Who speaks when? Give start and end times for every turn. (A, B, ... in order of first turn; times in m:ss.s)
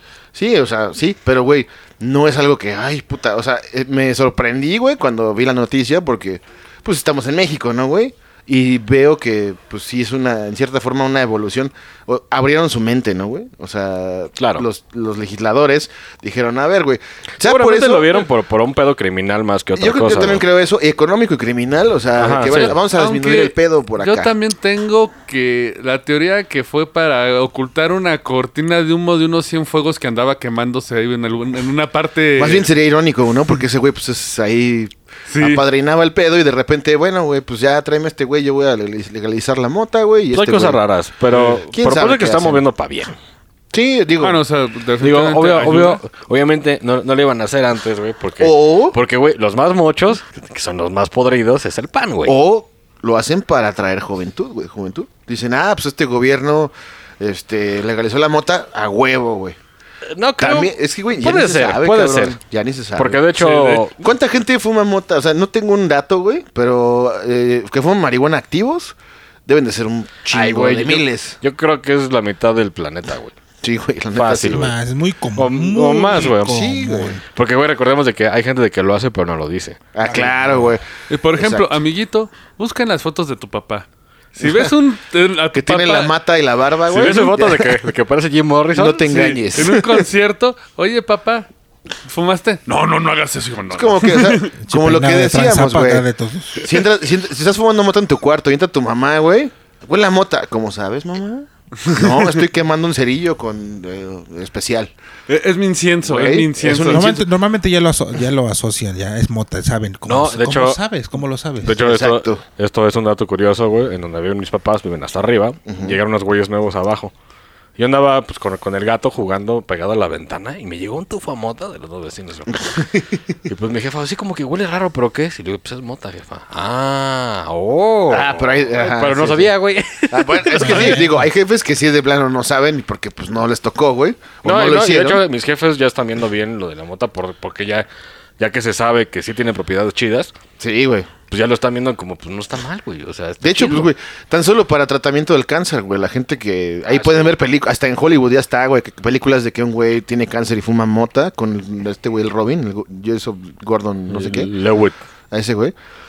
0:00.3-0:18.2 A
0:14.4-0:14.7 B
0:17.4-0:20.4 B
0:19.7-0:24.3 A
0:22.2-0:22.8 B
0:22.6-0:32.7 C
0:32.4-0:40.8 A
0:35.3-0:35.6 C
0:40.3-0:43.2 B
0:41.3-0:41.6 C
0:41.6-0:42.6 A
0:43.7-0:44.4 A
0:44.2-0:46.0 C
0:45.0-0:52.4 B
0:48.4-0:49.0 A
0:52.2-0:59.6 A
1:00.0-1:02.4 B
1:00.4-1:03.2 A
1:03.0-1:04.0 B
1:03.4-1:03.9 C
1:04.0-1:09.0 A
1:09.4-1:11.4 A
1:10.3-1:13.3 B
1:13.6-1:14.7 A
1:14.1-1:14.7 B
1:14.4-1:17.2 D
1:15.4-1:16.6 B
1:16.3-1:17.2 A
1:17.3-1:19.8 B
1:20.0-1:20.8 A
1:20.0-1:20.8 D
1:21.1-1:26.1 C
1:21.4-1:21.7 A
1:25.5-1:27.8 A
1:26.9-1:29.4 B
1:28.7-1:30.0 A
1:29.1-1:31.5 C
1:32.0-1:34.5 C
1:33.7-1:36.0 A
1:34.6-1:36.7 D
1:36.6-1:44.9 A
1:41.9-1:42.3 C
1:45.3-1:47.2 C
1:46.0-1:47.2 A
1:46.8-1:51.8 D
1:50.0-1:50.8 B
1:51.6-1:57.1 B
1:51.7-1:52.4 A
1:55.7-1:56.0 A
1:57.8-2:02.6 B
2:02.5-2:03.2 A
2:03.5-2:11.0 B
2:08.1-2:09.5 A
2:10.1-2:15.2 A
2:10.6-2:11.3 D
2:14.4-2:17.9 B
2:18.4-2:20.3 B
2:20.6-2:21.1 A
2:21.3-2:23.9 B
2:23.4-2:34.5 A
2:26.9-2:27.4 B
2:34.1-2:35.0 B
2:35.3-2:35.7 A